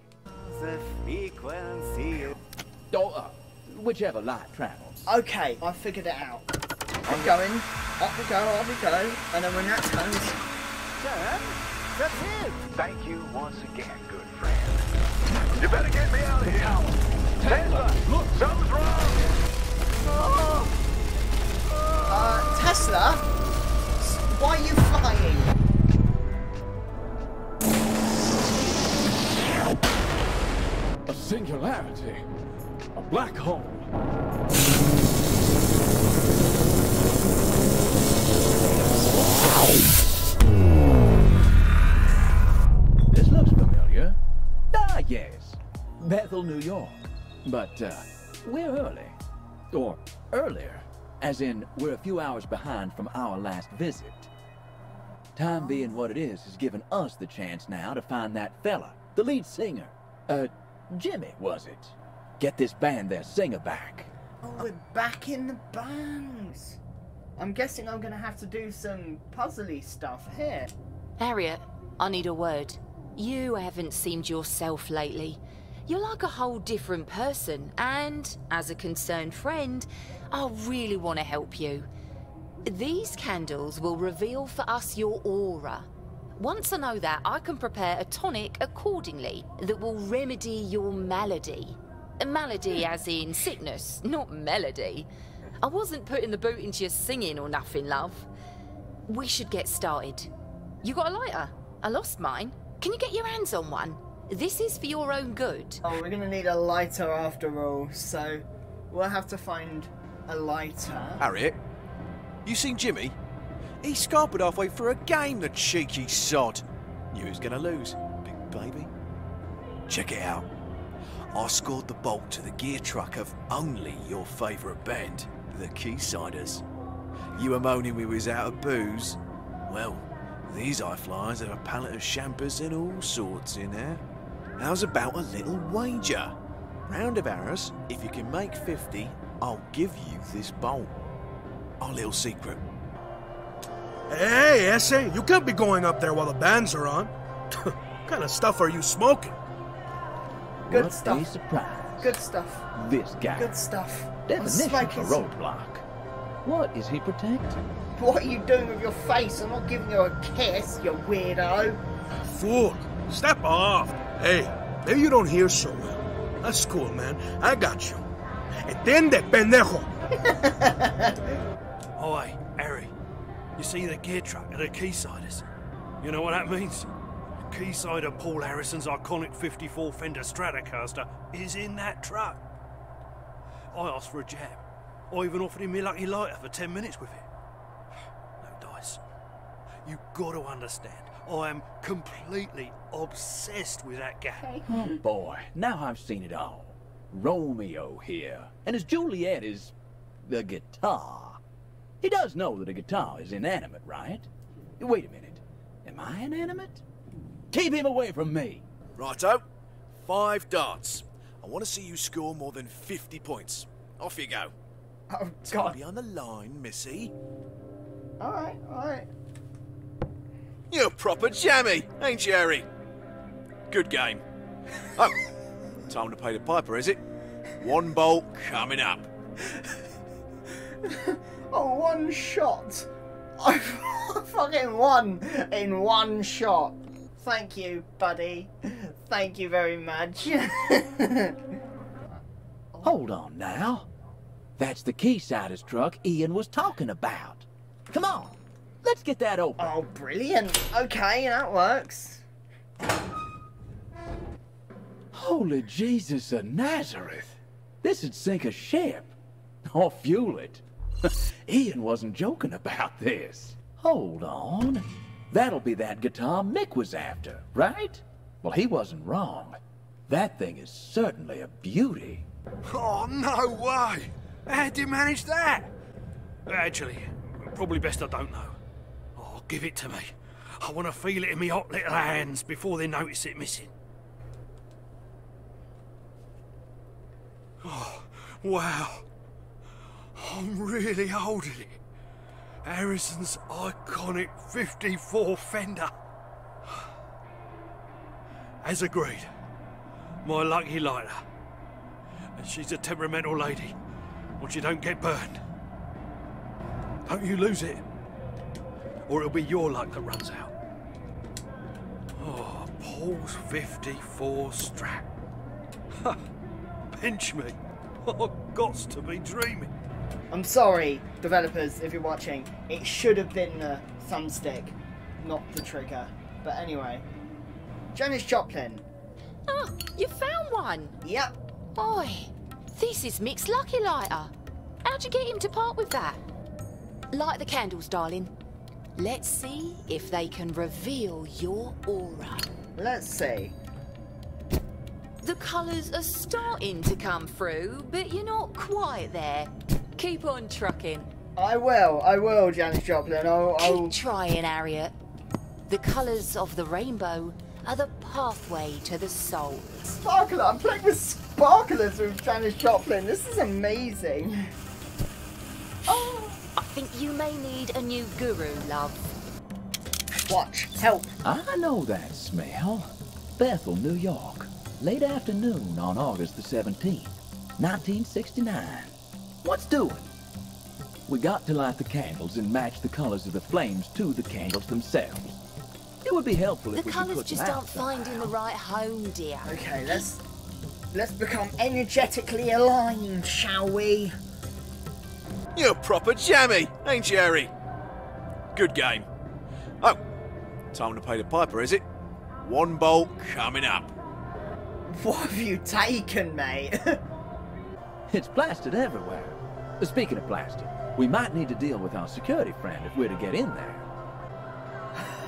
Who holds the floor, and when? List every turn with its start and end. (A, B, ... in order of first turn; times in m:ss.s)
0:00.5-0:02.3 A
0:02.9-0:05.1 B
0:05.0-0:06.5 C
0:07.0-0:10.4 C
0:07.1-0:07.4 B
0:11.1-0:11.4 A
0:12.1-0:14.7 A
0:15.8-0:16.6 A
0:17.4-0:18.6 B
0:17.6-0:19.1 A
0:22.1-0:23.3 C
0:24.0-0:25.5 C
0:31.0-0:32.2 B
0:32.9-0:33.9 B
0:43.1-0:44.2 B
0:44.7-0:49.2 B
0:49.7-0:54.3 B
0:55.3-1:04.1 B
1:04.4-1:06.8 C
1:07.4-1:10.7 C
1:11.2-1:21.9 D
1:22.6-1:35.1 D
1:35.6-1:38.3 D
1:39.1-1:40.3 D
1:40.8-1:45.8 D
1:45.8-1:51.2 C
1:51.2-1:51.6 E
1:52.4-1:53.2 E
1:53.8-1:58.9 E
1:59.9-2:00.5 E
2:01.3-2:06.6 E
2:07.3-2:14.0 E
2:14.6-2:16.4 E
2:16.9-2:21.0 E
2:21.8-2:22.6 E
2:24.1-2:29.4 F
2:30.7-2:32.2 B
2:30.7-2:31.3 C
2:32.0-2:32.6 C
2:32.7-2:33.6 B
2:33.3-2:35.3 C
2:34.2-2:35.8 B
2:36.4-2:37.6 B
2:38.0-2:41.8 C
2:42.3-2:48.0 F
2:48.6-2:49.9 F
2:50.2-2:51.1 C
2:52.0-2:52.9 G
2:53.6-2:55.4 G
2:56.0-2:56.9 G
2:57.5-3:02.4 G
3:03.7-3:07.2 G
3:08.4-3:09.0 G
3:09.8-3:14.5 G
3:14.6-3:19.7 B
3:20.2-3:21.4 B
3:22.0-3:24.3 B
3:24.8-3:26.8 B
3:27.5-3:28.6 B
3:29.0-3:29.4 E
3:29.9-3:34.5 E
3:35.1-3:35.8 C
3:35.5-3:37.1 E
3:38.2-3:39.1 C
3:40.7-3:42.7 E
3:43.7-3:44.2 E
3:45.0-3:45.2 E
3:45.9-3:47.0 E
3:47.6-3:49.1 E
3:50.8-4:01.3 C
4:02.8-4:03.9 B
4:04.6-4:09.7 B
4:09.6-4:12.2 C
4:15.1-4:19.1 B
4:19.6-4:29.6 B
4:30.1-4:32.2 B
4:32.7-4:35.7 G
4:36.5-4:38.6 G
4:39.2-4:43.7 G
4:47.6-4:49.0 G
4:50.1-4:51.8 G
4:52.6-4:55.9 G
4:58.6-4:59.3 G
5:00.2-5:01.2 G
5:02.4-5:03.8 G
5:04.4-5:05.4 G
5:07.0-5:07.8 G
5:09.0-5:10.5 G
5:12.2-5:15.0 G
5:16.9-5:19.7 G
5:20.3-5:27.0 C
5:27.9-5:28.8 C
5:29.5-5:30.9 D
5:31.0-5:31.3 C
5:31.8-5:34.3 D
5:34.8-5:36.2 D
5:37.1-5:38.3 D
5:39.0-5:42.5 D
5:42.8-5:43.5 C
5:45.2-5:51.1 D
5:51.4-5:54.0 C
5:53.6-5:54.9 D
5:55.7-5:59.9 D
5:59.9-6:04.5 C
6:05.9-6:09.1 D
6:10.3-6:11.1 C
6:11.2-6:20.1 B
6:21.1-6:25.4 B
6:26.0-6:28.3 B
6:26.7-6:29.5 D
6:29.4-6:30.2 C
6:30.9-6:34.1 C
6:35.5-6:37.5 E
6:38.5-6:39.1 E
6:40.7-6:41.8 E
6:42.4-6:43.9 E
6:44.8-6:47.0 C
6:48.1-6:53.8 B